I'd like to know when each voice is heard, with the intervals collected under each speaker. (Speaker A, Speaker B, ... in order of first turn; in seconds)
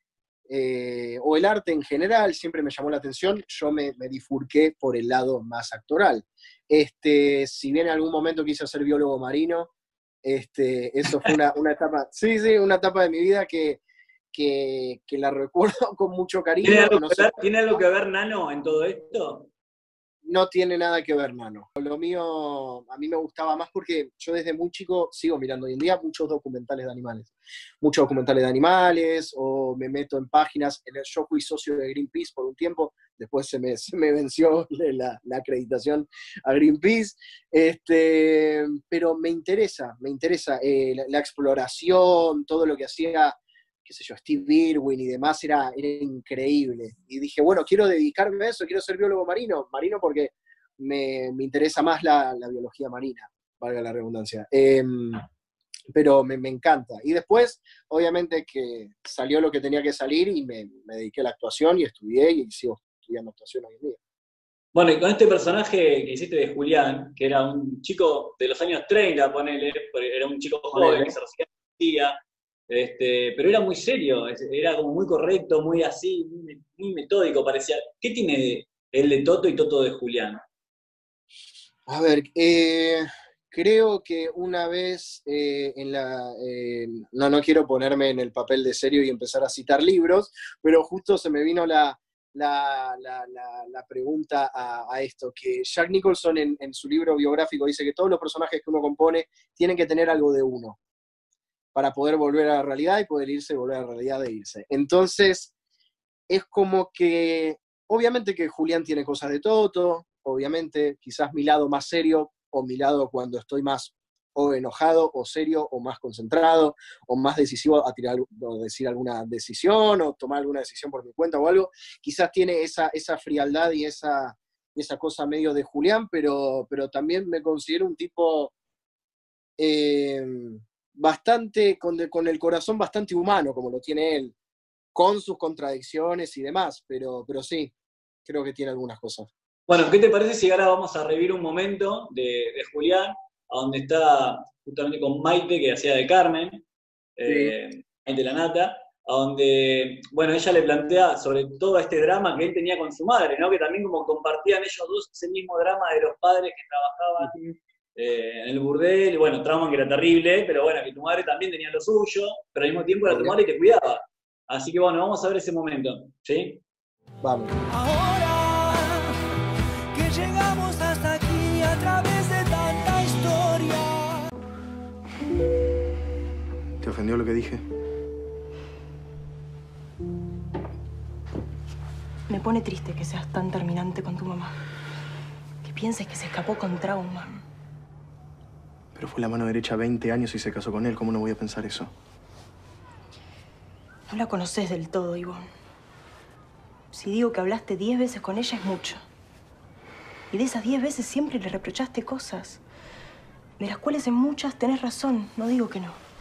Speaker A: 0.5-9.7, 10.2-13.8, 14.3-17.7, 20.2-55.2, 55.9-64.0, 70.7-71.1, 81.9-100.8, 101.7-105.5, 106.3-128.5, 129.6-134.3, 134.9-137.7, 138.2-139.3, 147.3-147.5, 163.1-163.4, 167.2-167.6
Speaker B: 16.6-19.5, 64.7-72.2, 72.7-80.4, 139.7-146.6, 147.2-157.4, 157.9-166.6
Speaker C: 167.7-169.2, 169.9-174.2
Speaker D: 176.8-177.6, 188.9-191.9
Speaker E: 182.3-184.6, 185.6-187.4, 194.1-195.5, 196.9-199.0, 200.3-202.6, 203.6-206.0